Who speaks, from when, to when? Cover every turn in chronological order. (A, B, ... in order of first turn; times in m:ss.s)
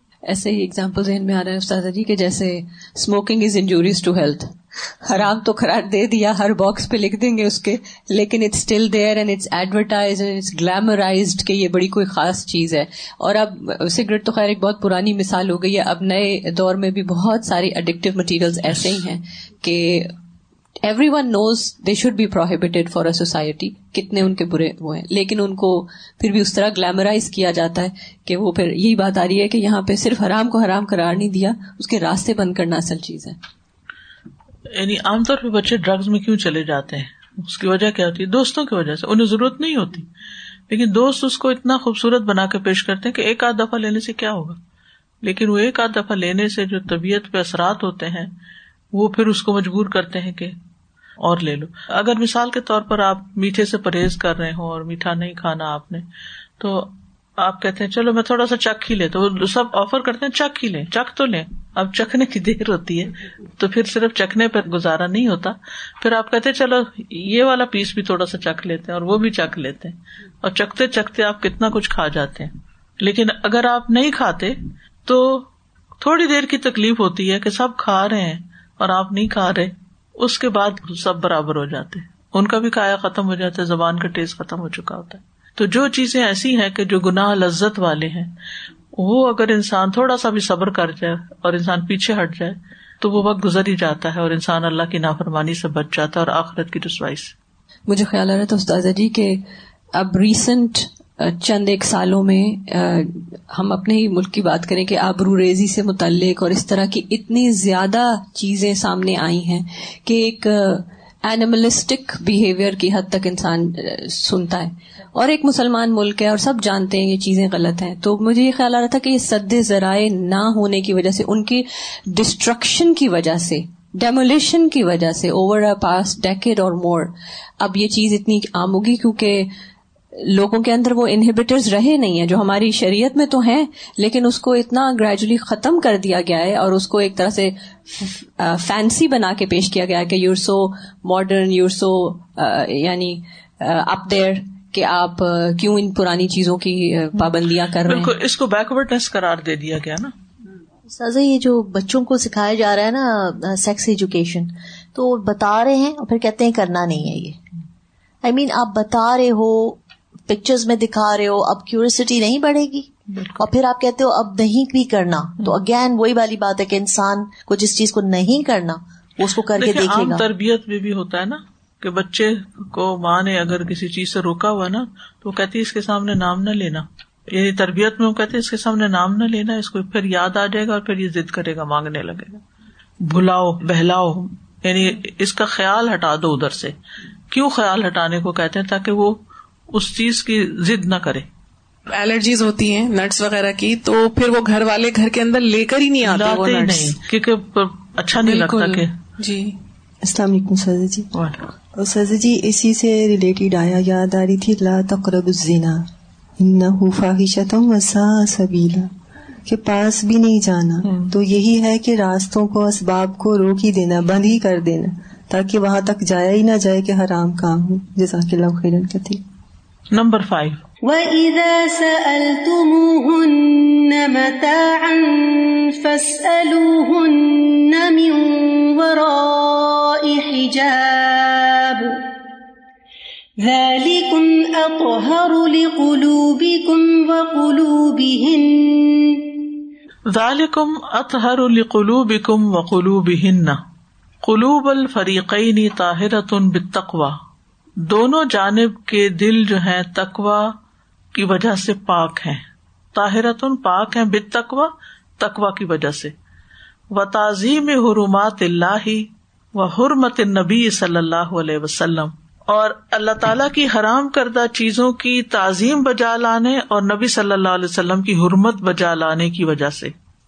0:00.3-0:20.2 A
0:20.8-0:33.4 A
0:34.8-0:40.1 B
0:40.7-0:44.6 B
0:45.2-0:48.4 B
0:48.9-0:50.6 B
0:51.2-0:56.1 B
0:56.6-1:15.5 B
1:16.0-1:28.3 B
1:29.0-1:37.4 B
1:37.9-1:39.4 A
1:40.0-2:09.5 A
2:10.2-2:28.1 A
2:27.8-2:30.1 B
2:30.9-2:37.4 C
2:38.2-2:50.2 C
2:43.2-2:43.4 B
2:49.6-3:02.4 B
3:03.0-3:06.8 B
3:07.3-3:11.3 B
3:11.9-3:17.0 D
3:16.0-3:18.9 B
3:18.2-3:19.6 D
3:20.0-3:21.1 E
3:21.1-3:21.4 B
3:21.8-3:25.9 E
3:26.4-3:28.9 E
3:29.4-3:39.2 E
3:39.9-3:40.6 B
3:40.8-3:52.0 F
3:53.4-3:59.2 F
4:00.1-4:03.6 B
4:04.2-4:07.2 B
4:07.9-4:10.5 B
4:11.1-4:12.4 B
4:12.9-4:16.1 B
4:16.9-4:29.9 B